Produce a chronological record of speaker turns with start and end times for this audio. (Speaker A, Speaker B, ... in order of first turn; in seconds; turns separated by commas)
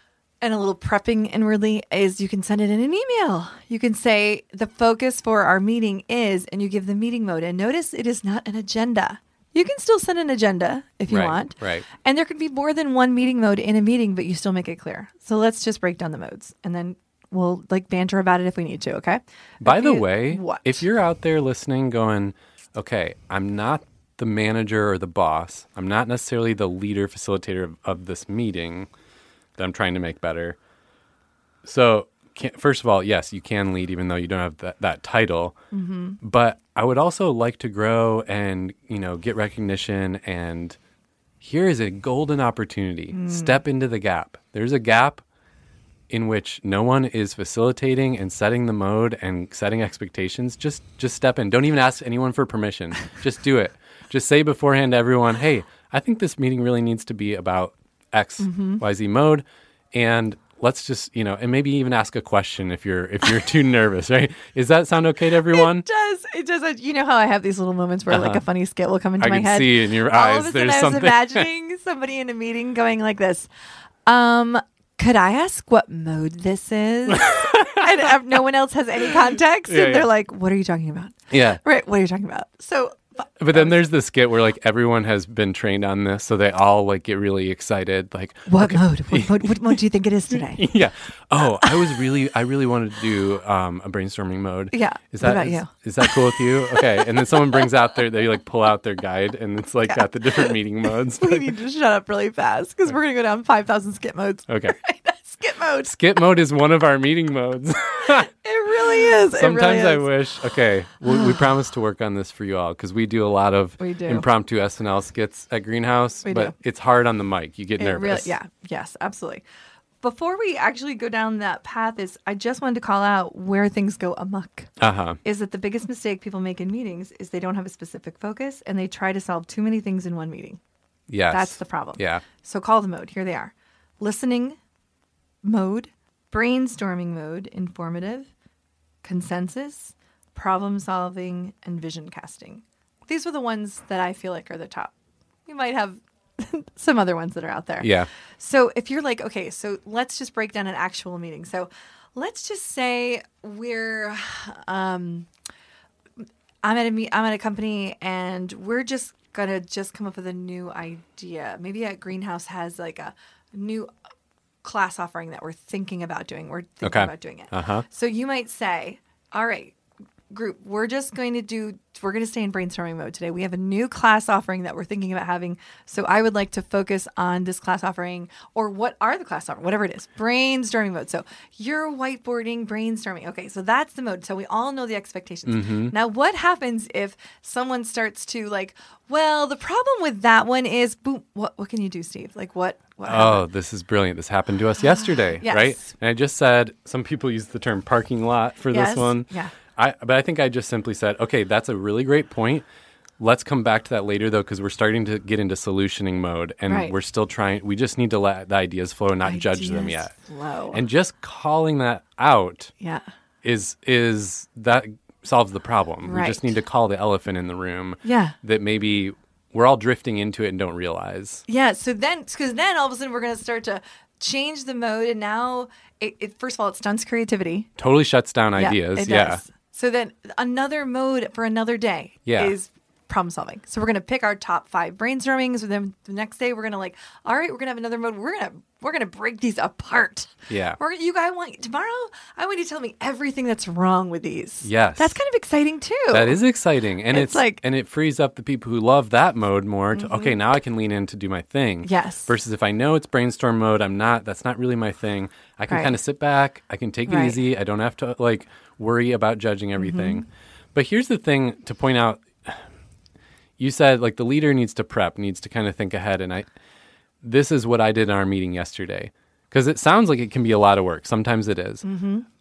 Speaker A: 0.4-20.8, Speaker B: 11.1-11.8, Speaker B: 19.6-28.9, Speaker B: 29.6-30.6, Speaker B: 31.6-35.5, Speaker A: 35.7-36.2, Speaker B: 36.2-40.8, Speaker B: 41.4-45.2, Speaker A: 43.1-43.6, Speaker B: 46.1-65.8, Speaker A: 58.4-58.8, Speaker A: 65.5-73.5, Speaker B: 68.1-68.4, Speaker B: 69.2-71.5, Speaker A: 74.0-83.8, Speaker B: 77.1-77.9, Speaker B: 79.7-80.1, Speaker B: 81.3-81.6, Speaker B: 83.4-89.8, Speaker A: 88.5-90.7, Speaker B: 90.3-101.5, Speaker A: 91.6-92.0, Speaker A: 94.7-97.7, Speaker A: 99.9-100.5, Speaker A: 101.1-106.0, Speaker B: 104.5-104.8, Speaker B: 105.8-108.3, Speaker A: 108.0-110.1, Speaker B: 109.0-118.3, Speaker A: 111.0-111.4, Speaker A: 113.8-114.2, Speaker A: 116.2-116.5, Speaker A: 117.8-119.4, Speaker A: 120.0-124.7, Speaker B: 124.8-125.2, Speaker A: 125.2-130.6, Speaker B: 131.1-132.2, Speaker A: 131.3-134.6, Speaker A: 135.4-138.3, Speaker A: 139.0-144.9, Speaker A: 145.4-155.3, Speaker B: 147.8-148.1, Speaker A: 156.6-163.9, Speaker A: 164.6-169.8, Speaker B: 166.8-167.8, Speaker A: 170.3-193.4, Speaker B: 185.5-185.9, Speaker B: 193.1-202.7, Speaker A: 194.8-195.8, Speaker A: 198.7-199.5, Speaker B: 203.2-210.1, Speaker A: 206.7-206.9, Speaker A: 209.2-210.8, Speaker B: 210.7-212.7, Speaker A: 212.8-213.1, Speaker B: 213.4-221.4, Speaker A: 216.0-216.5, Speaker A: 218.0-218.3, Speaker A: 221.5-227.7, Speaker B: 227.8-229.4, Speaker A: 228.6-246.4, Speaker B: 232.2-232.5, Speaker B: 240.5-240.8, Speaker B: 244.6-245.2, Speaker B: 246.1-262.6, Speaker A: 247.1-247.6, Speaker A: 249.9-250.4, Speaker A: 251.8-252.3, Speaker A: 255.7-255.9, Speaker A: 257.1-257.4, Speaker A: 259.8-260.2, Speaker B: 263.6-266.5, Speaker B: 267.2-271.9, Speaker A: 271.8-272.2